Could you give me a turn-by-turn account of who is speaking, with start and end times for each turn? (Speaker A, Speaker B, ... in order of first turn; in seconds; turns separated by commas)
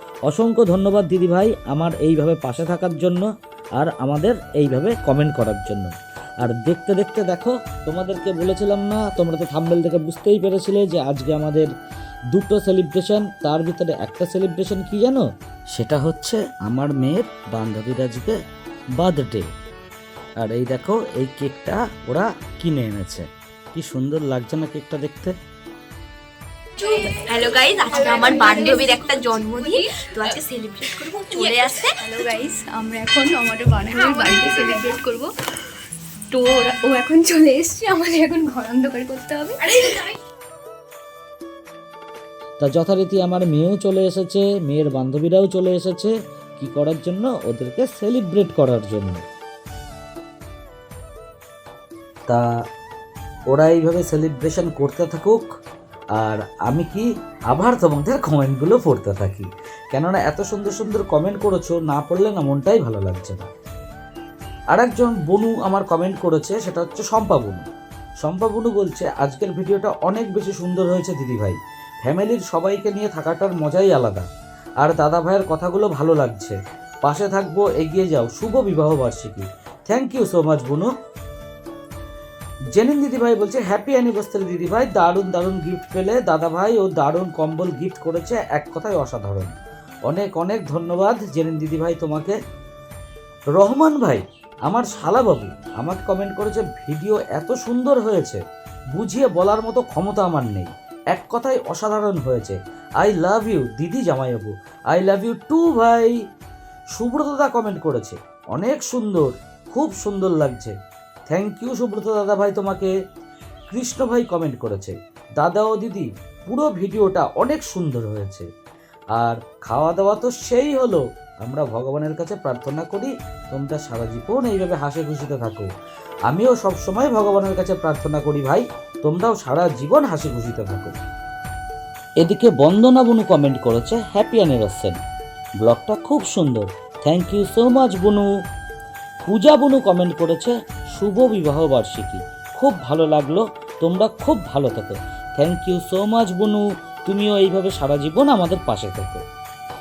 Speaker A: 0.3-3.3, Speaker A: 3.8-5.9, Speaker A: 6.4-11.7, Speaker A: 12.3-18.4, Speaker A: 19.0-19.5, Speaker A: 20.4-25.4, Speaker B: 26.8-30.4, Speaker C: 26.8-32.1, Speaker B: 30.9-35.3, Speaker C: 34.0-35.2, Speaker B: 36.3-40.1, Speaker A: 42.6-49.2, Speaker A: 53.5-55.5, Speaker A: 56.1-63.5, Speaker A: 64.7-67.7, Speaker A: 68.2-74.3, Speaker A: 74.8-80.9, Speaker A: 82.7-89.6, Speaker A: 90.1-92.4, Speaker A: 93.6-98.4, Speaker A: 98.9-106.1, Speaker A: 106.9-110.8, Speaker A: 111.3-112.9, Speaker A: 113.7-118.5, Speaker A: 119.2-125.7, Speaker A: 126.3-131.0, Speaker A: 132.2-135.0, Speaker A: 135.6-138.3, Speaker A: 139.3-149.2